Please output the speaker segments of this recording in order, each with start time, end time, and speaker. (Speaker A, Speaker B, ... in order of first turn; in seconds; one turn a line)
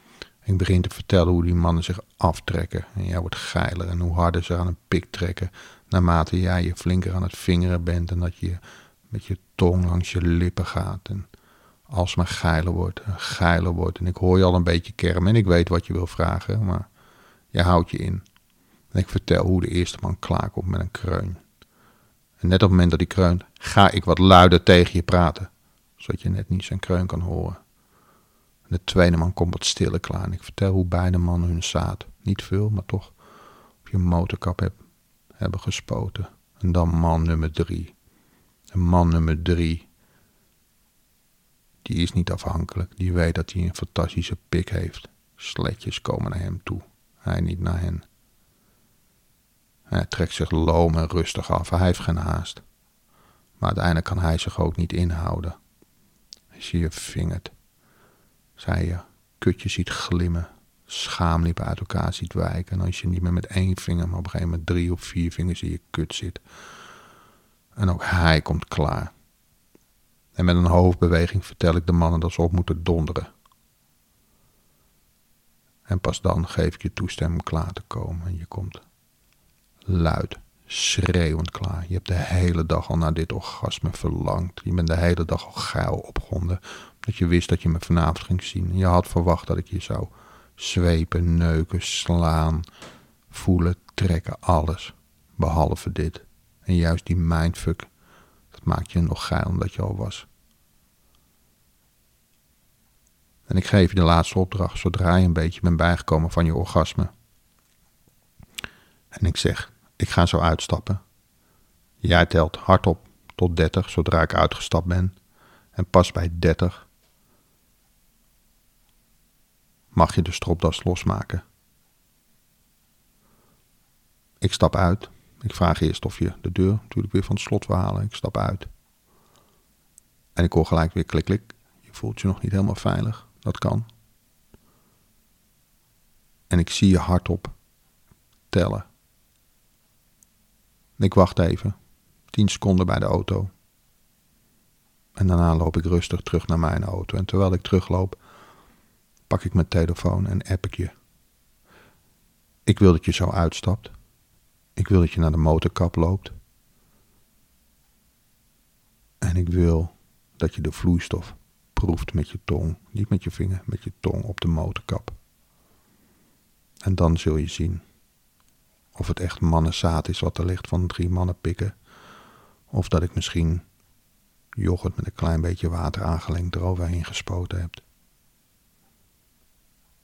Speaker A: 0.4-11.3
Speaker A: 11.9-16.9
Speaker A: 17.5-18.2
Speaker A: 18.9-21.4
Speaker A: 22.4-27.6
Speaker A: 28.7-33.1
Speaker A: 33.8-34.8
Speaker A: 35.4-37.9
Speaker A: 38.7-39.9
Speaker A: 41.8-48.0
Speaker A: 49.9-52.6
Speaker A: 53.6-55.5
Speaker A: 56.5-57.5
Speaker A: 58.6-66.4
Speaker A: 67.8-69.1
Speaker A: 70.3-73.3
Speaker A: 75.9-78.8
Speaker A: 79.8-92.6
Speaker A: 93.3-97.9
Speaker A: 98.5-100.2
Speaker A: 103.5-107.1
Speaker A: 109.1-111.0
Speaker A: 112.0-115.2
Speaker A: 115.7-116.9
Speaker A: 119.9-121.4
Speaker A: 124.4-128.7
Speaker A: 130.3-133.9
Speaker A: 136.5-137.5
Speaker A: 138.5-138.8
Speaker A: 141.0-141.7
Speaker A: 142.3-143.5
Speaker A: 145.2-148.2
Speaker A: 149.3-150.9
Speaker A: 152.7-153.9
Speaker A: 154.8-156.3
Speaker A: 159.2-165.2
Speaker A: 166.8-167.8
Speaker A: 168.9-171.8
Speaker A: 172.7-173.6
Speaker A: 174.6-177.8